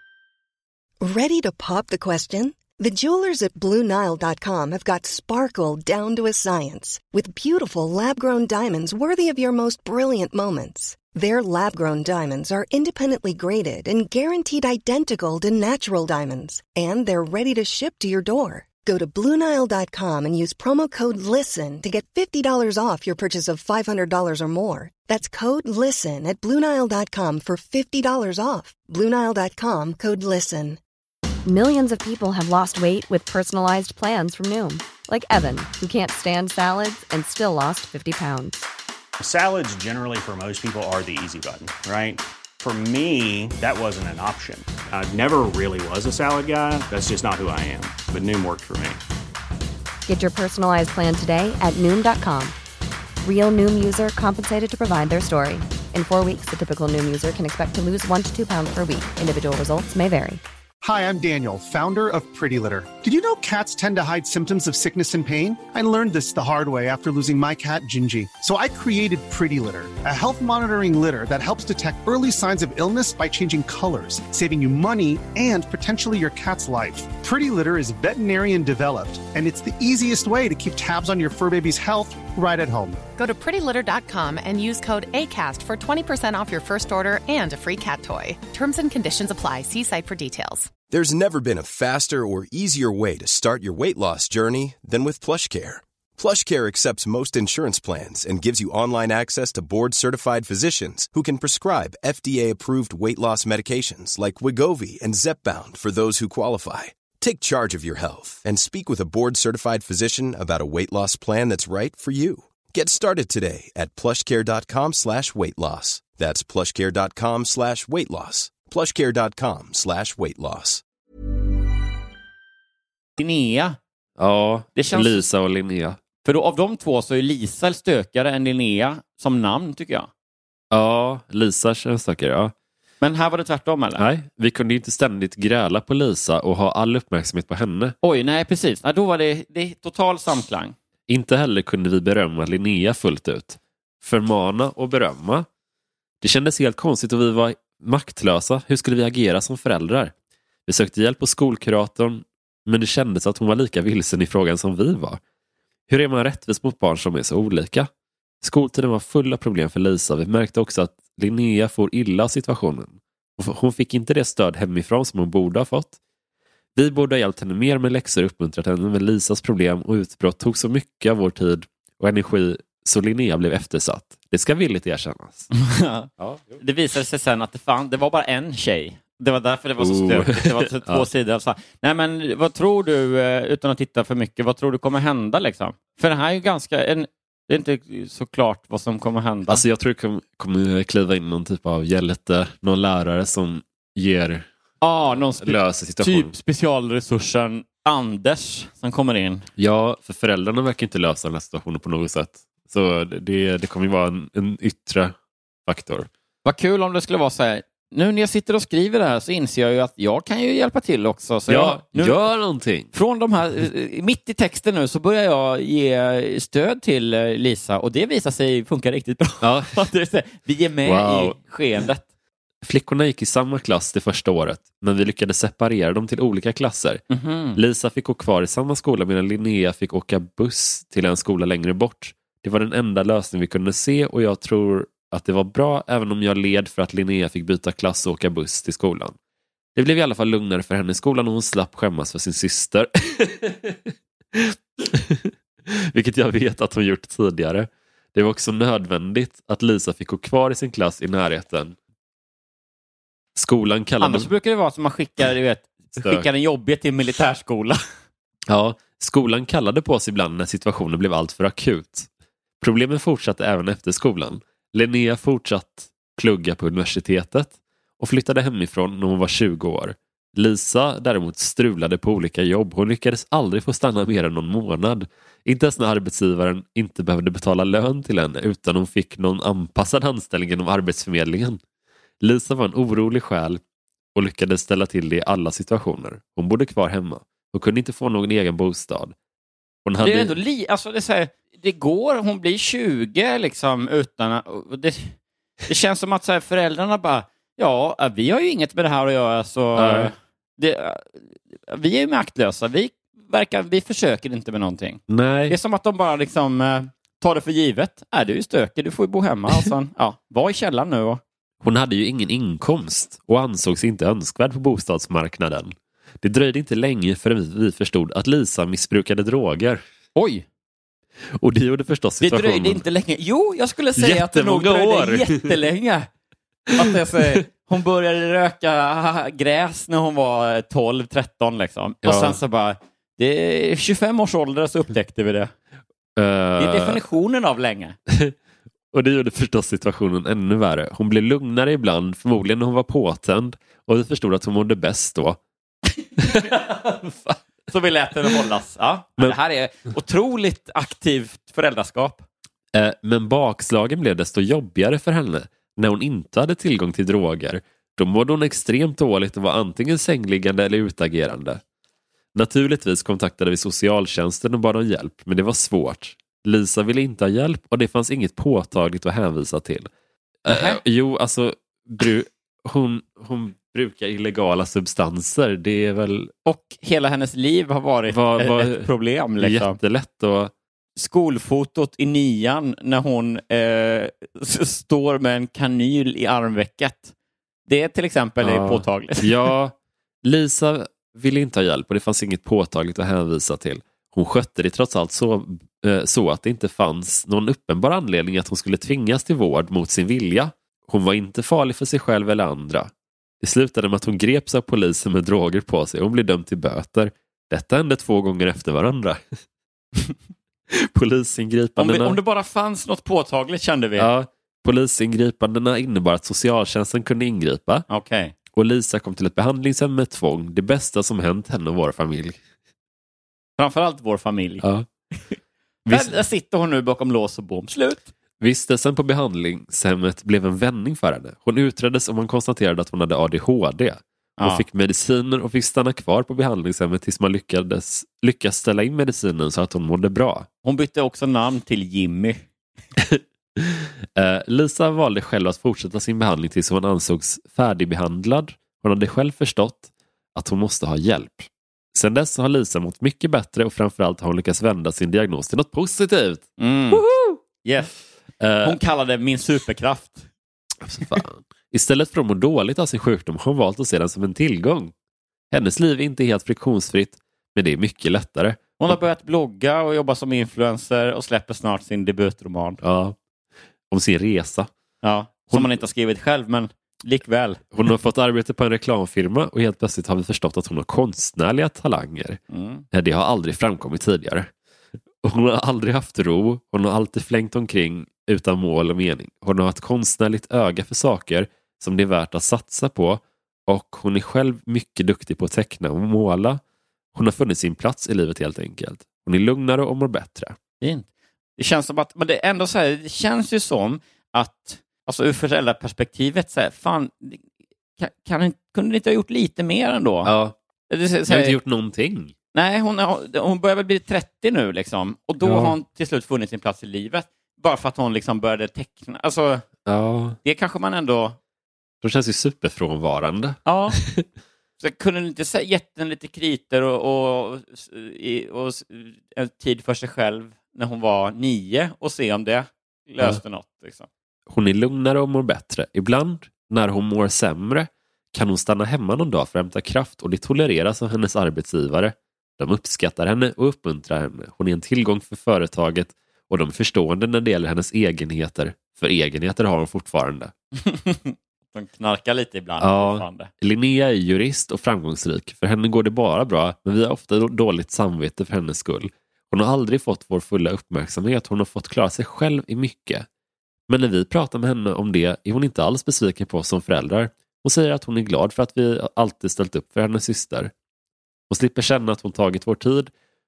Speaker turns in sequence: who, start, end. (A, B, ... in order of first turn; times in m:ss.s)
0:01.0-0:30.8 A
0:31.4-0:38.6 B
0:39.2-0:49.0 C
0:50.0-0:52.6 B
0:53.2-1:00.4 B
1:00.8-1:23.0 D
1:23.2-1:30.7 E
1:30.9-2:00.8 F
2:03.2-2:03.8 G
2:04.2-2:06.0 H
2:04.7-2:05.2 G
2:06.2-2:10.1 G
2:10.7-2:12.5 H
2:13.0-2:14.0 G
2:14.0-2:18.0 H
2:18.0-2:20.7 G
2:21.1-2:25.4 H
2:26.2-2:30.1 H
2:30.6-2:35.2 H
2:35.9-2:37.9 H
2:38.4-2:46.0 H
2:46.8-2:55.5 H
2:55.5-3:09.6 G
2:56.2-2:56.6 H
2:59.8-3:01.1 H
3:09.5-3:14.5 H
3:14.8-3:19.5 G
3:15.3-3:16.3 H
3:19.6-3:25.1 H
3:25.7-3:26.1 H
3:26.4-3:32.2 G
3:31.5-3:32.9 H
3:32.9-3:42.0 G
3:39.4-3:39.9 H
3:40.8-3:41.4 H
3:42.6-3:47.0 H
3:47.1-3:47.6 G
3:47.6-3:59.2 H
3:59.8-4:11.8 H
4:13.4-4:14.3 H
4:14.0-4:17.8 G
4:16.0-4:16.2 H
4:18.5-4:22.1 H
4:22.6-4:41.6 H
4:42.2-4:43.6 H
4:44.1-4:49.1 H
4:49.8-4:50.4 H
4:50.0-4:55.1 G
4:55.7-5:11.2 G
4:59.8-5:00.1 H
5:05.1-5:05.6 H
5:11.6-5:19.8 H
5:20.2-5:20.4 G
5:21.3-5:22.8 H
5:22.2-5:26.1 G
5:24.0-5:25.6 H
5:26.7-5:35.5 G
5:32.0-5:32.4 H
5:36.2-5:37.0 H
5:36.6-5:38.0 G
5:38.1-5:38.3 H
5:38.9-5:45.4 H
5:46.2-5:47.4 H
5:46.3-5:46.8 G
5:47.7-5:52.2 G
5:52.7-6:01.6 H
6:02.3-6:09.9 H
6:10.4-6:16.3 H
6:10.5-6:10.8 G
6:16.4-6:19.8 G
6:18.1-6:18.9 H
6:19.4-6:20.5 H
6:21.0-6:27.1 G
6:27.7-6:29.3 G
6:28.4-6:49.2 H
6:50.7-6:52.2 H
6:51.8-6:54.1 G
6:54.0-6:57.9 H
6:57.9-6:58.3 G
6:58.5-7:02.4 H
7:03.6-7:04.6 G
7:04.6-7:04.9 H
7:05.9-7:06.2 H
7:05.9-7:08.1 G
7:08.4-7:20.5 H
7:14.4-7:14.6 G
7:20.6-7:22.4 G
7:23.0-7:37.4 H
7:36.6-7:37.0 G
7:37.6-7:37.9 G
7:38.4-7:38.8 H
7:38.6-7:40.2 G
7:40.8-7:44.9 H
7:45.5-7:49.0 H
7:48.8-7:52.8 G
7:52.8-7:53.2 H
7:53.9-7:54.7 H
7:55.0-7:57.6 G
7:55.5-7:55.8 H
7:57.7-8:02.4 H
8:02.5-8:02.8 G
8:02.9-8:04.5 H
8:05.2-8:16.6 H
8:17.1-8:20.6 H
8:20.8-8:21.0 G
8:21.6-8:27.4 G
8:28.0-8:30.3 G
8:30.2-8:30.6 H
8:30.9-8:31.6 G
8:31.3-8:32.3 H
8:32.5-8:39.6 G
8:35.4-8:35.7 H
8:39.9-8:40.4 H
8:40.4-8:41.4 G
8:42.0-8:44.2 H
8:43.6-8:44.0 G
8:44.8-8:54.1 G
8:54.5-9:10.5 H
9:10.8-9:13.5 G
9:12.8-9:23.2 H
9:23.9-9:30.7 H
9:31.5-9:33.1 H